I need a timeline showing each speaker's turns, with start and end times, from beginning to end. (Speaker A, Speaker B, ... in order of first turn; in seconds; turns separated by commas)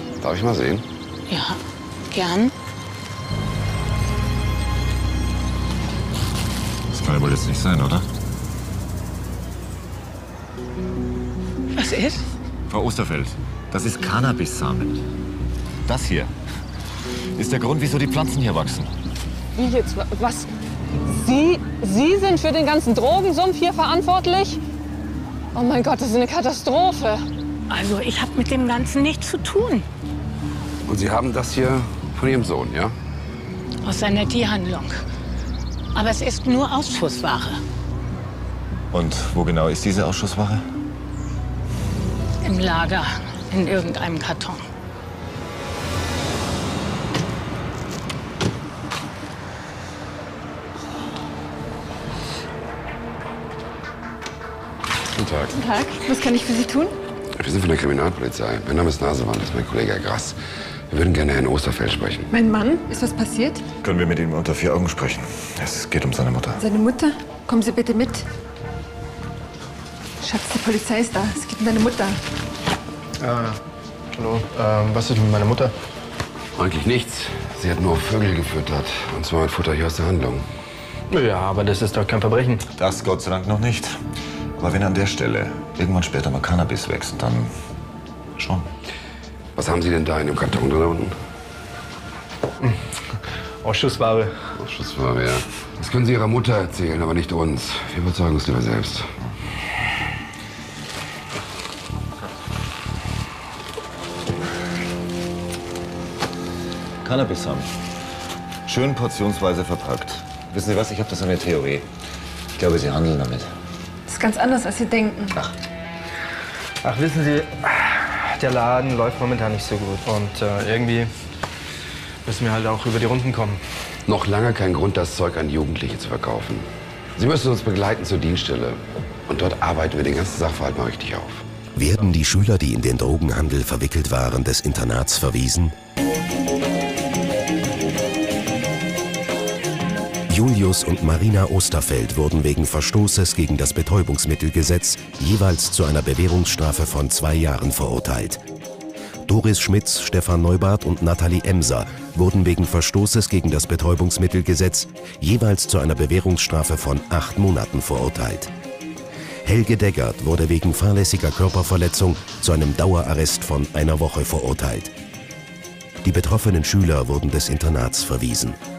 Speaker A: 0.2-0.8, Speaker B: 1.3-1.6, Speaker B: 2.1-2.5, Speaker C: 6.9-8.1, Speaker B: 11.7-12.2, Speaker C: 12.7-15.0, Speaker C: 15.8-16.3, Speaker C: 17.3-18.9, Speaker D: 19.6-20.5, Speaker D: 21.1-24.6, Speaker D: 25.5-27.2, Speaker B: 27.7-29.9, Speaker A: 30.9-32.9, Speaker B: 33.8-35.0, Speaker B: 35.9-37.6, Speaker C: 38.9-40.6, Speaker B: 42.4-44.6, Speaker A: 55.2-55.5, Speaker E: 55.5-56.9, Speaker A: 57.4-60.4, Speaker A: 60.9-62.3, Speaker E: 62.3-63.6, Speaker C: 63.8-66.6, Speaker E: 66.6-68.2, Speaker E: 70.2-72.2, Speaker F: 73.2-73.5, Speaker F: 74.1-75.7, Speaker A: 76.5-80.4, Speaker F: 81.1-82.6, Speaker C: 82.8-84.0, Speaker C: 84.6-87.5, Speaker C: 88.3-88.7, Speaker A: 89.5-91.1, Speaker F: 93.6-94.3, Speaker A: 94.6-99.1, Speaker C: 107.0-107.7, Speaker C: 108.7-111.9, Speaker C: 112.5-113.5, Speaker E: 114.1-115.4, Speaker F: 116.8-121.1, Speaker F: 122.2-123.6, Speaker A: 124.0-131.4, Speaker G: 131.7-135.7, Speaker G: 140.3-148.4, Speaker G: 149.3-158.5, Speaker G: 159.4-164.9, Speaker G: 166.0-168.6